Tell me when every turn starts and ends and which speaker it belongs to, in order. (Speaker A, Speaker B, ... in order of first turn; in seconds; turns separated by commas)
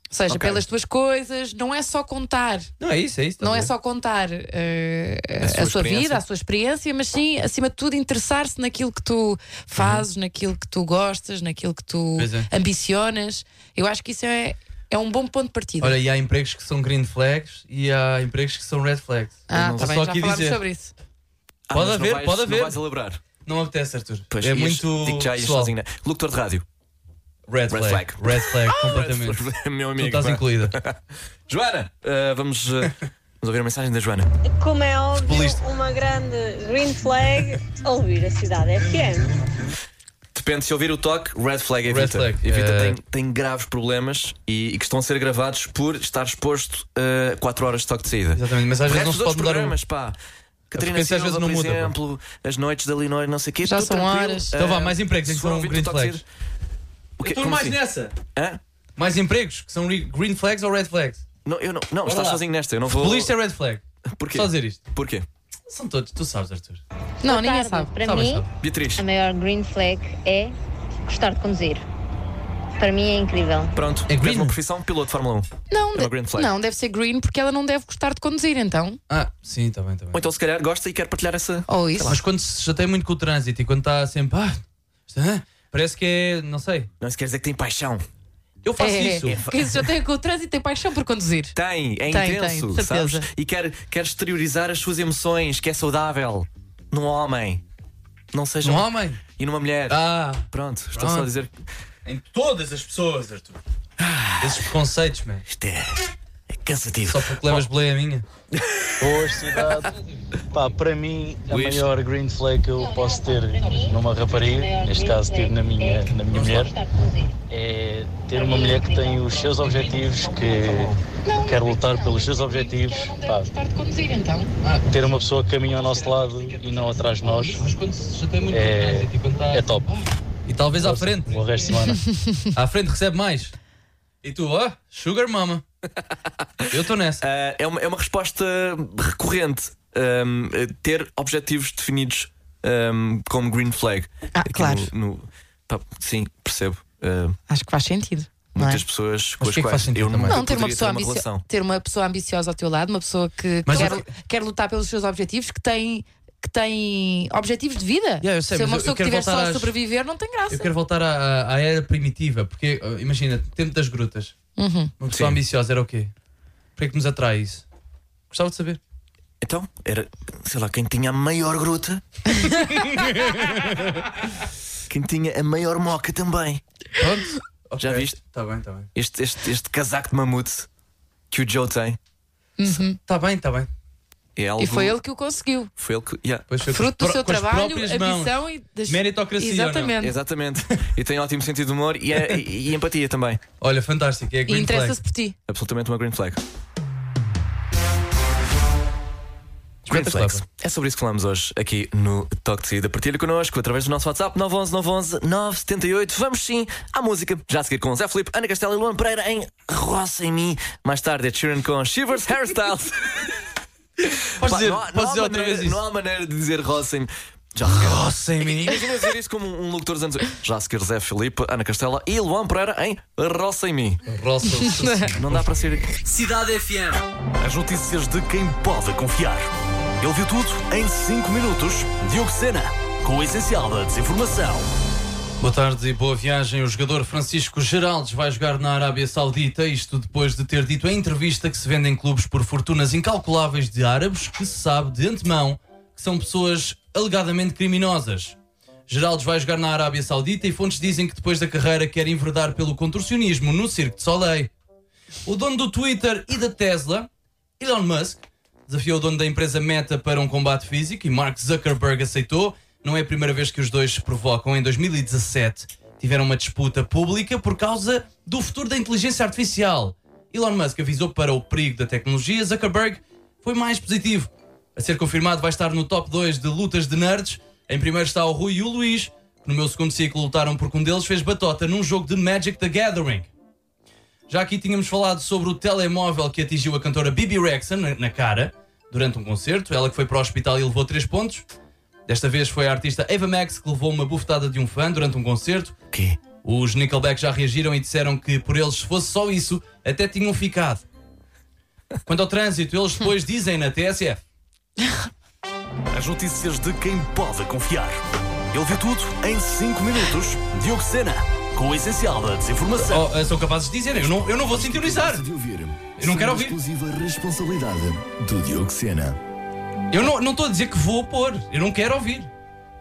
Speaker A: 0.1-2.7, Speaker B: 0.3-0.6, Speaker C: 2.8-3.7, Speaker A: 3.4-16.0, Speaker B: 5.4-6.2, Speaker C: 12.2-12.5, Speaker C: 15.8-20.6, Speaker A: 19.5-20.9, Speaker B: 19.5-20.1, Speaker B: 21.7-23.2, Speaker C: 21.7-22.8, Speaker C: 23.4-25.7, Speaker B: 24.3-26.6, Speaker C: 27.5-29.5, Speaker B: 27.7-34.3, Speaker C: 30.0-30.8, Speaker D: 34.4-39.4, Speaker C: 35.2-35.6, Speaker B: 40.3-50.2, Speaker C: 41.9-43.0, Speaker C: 48.3-49.8, Speaker B: 50.7-56.2, Speaker C: 50.7-51.9, Speaker A: 53.6-54.5, Speaker C: 54.6-56.2, Speaker B: 57.2-57.8, Speaker C: 57.2-58.1, Speaker B: 58.4-58.6, Speaker C: 59.0-61.2, Speaker B: 61.5-63.3, Speaker C: 62.0-63.8, Speaker B: 64.1-65.3, Speaker C: 64.3-64.8, Speaker C: 65.7-66.8, Speaker A: 67.2-68.0, Speaker D: 67.3-68.3, Speaker C: 67.9-68.5, Speaker B: 68.6-69.0, Speaker E: 69.0-70.5, Speaker E: 71.1-71.8, Speaker E: 72.8-73.8, Speaker B: 73.8-76.5, Speaker C: 74.1-74.6, Speaker A: 75.7-79.0, Speaker C: 79.1-80.2, Speaker B: 80.1-82.2, Speaker A: 81.7-82.2, Speaker C: 82.1-86.9, Speaker B: 87.0-88.1, Speaker C: 88.6-89.4, Speaker A: 88.8-91.6, Speaker B: 89.2-89.9, Speaker B: 91.5-97.6, Speaker A: 92.1-93.3, Speaker B: 98.3-101.5, Speaker C: 98.6-99.2, Speaker C: 99.9-101.3, Speaker C: 102.1-103.6, Speaker B: 104.0-104.7, Speaker C: 104.4-105.5, Speaker B: 105.5-107.7, Speaker C: 107.1-108.3, Speaker B: 108.5-108.9, Speaker F: 109.0-109.9, Speaker F: 110.5-116.7, Speaker E: 114.7-116.0, Speaker D: 114.8-115.5, Speaker C: 116.3-116.7, Speaker E: 116.7-117.1, Speaker F: 117.5-123.5, Speaker E: 118.4-119.2, Speaker A: 121.2-124.5, Speaker F: 124.9-127.7, Speaker C: 127.3-131.6, Speaker F: 128.5-129.9, Speaker F: 130.8-132.0, Speaker A: 132.0-132.4, Speaker C: 132.5-133.6, Speaker C: 134.2-135.6, Speaker C: 136.7-137.2, Speaker B: 137.2-147.4, Speaker A: 144.3-144.9, Speaker A: 147.5-148.8, Speaker B: 148.5-151.4, Speaker C: 149.4-150.4, Speaker A: 150.3-160.7, Speaker C: 153.7-154.1, Speaker C: 158.2-159.8, Speaker C: 160.5-164.3, Speaker A: 164.6-164.9, Speaker C: 165.0-166.1, Speaker B: 165.1-165.4, Speaker C: 166.8-167.7, Speaker C: 168.3-168.8, Speaker B: 169.4-172.0, Speaker A: 172.3-172.7, Speaker C: 172.8-174.0, Speaker B: 174.9-176.6, Speaker C: 177.0-178.9, Speaker B: 177.8-178.2, Speaker B: 178.9-180.7, Speaker B: 181.3-182.0, Speaker A: 182.6-183.0, Speaker C: 183.1-183.7, Speaker B: 184.4-185.0, Speaker A: 184.6-185.7, Speaker B: 185.8-186.5, Speaker C: 186.5-188.3, Speaker A: 186.7-190.1, Speaker C: 188.9-189.9, Speaker B: 190.0-193.4, Speaker C: 193.6-195.0, Speaker A: 194.5-195.4, Speaker B: 195.5-196.4, Speaker C: 199.8-200.4, Speaker B: 199.9-213.4, Speaker C: 214.4-215.8, Speaker B: 214.4-224.0, Speaker C: 217.7-218.9, Speaker C: 224.1-225.5, Speaker A: 224.7-225.1, Speaker B: 225.2-225.9, Speaker C: 226.1-227.0, Speaker G: 227.4-234.7, Speaker C: 235.4-248.3, Speaker C: 248.9-254.5, Speaker C: 255.3-283.3, Speaker C: 284.3-291.4, Speaker C: 292.1-295.8, Speaker B: 295.9-296.2, Speaker C: 296.4-300.8, Speaker C: 302.1-304.2, Speaker G: 305.9-313.0, Speaker C: 312.8-315.2, Speaker B: 314.2-316.5, Speaker G: 315.9-319.1, Speaker C: 316.0-316.6, Speaker C: 319.9-322.3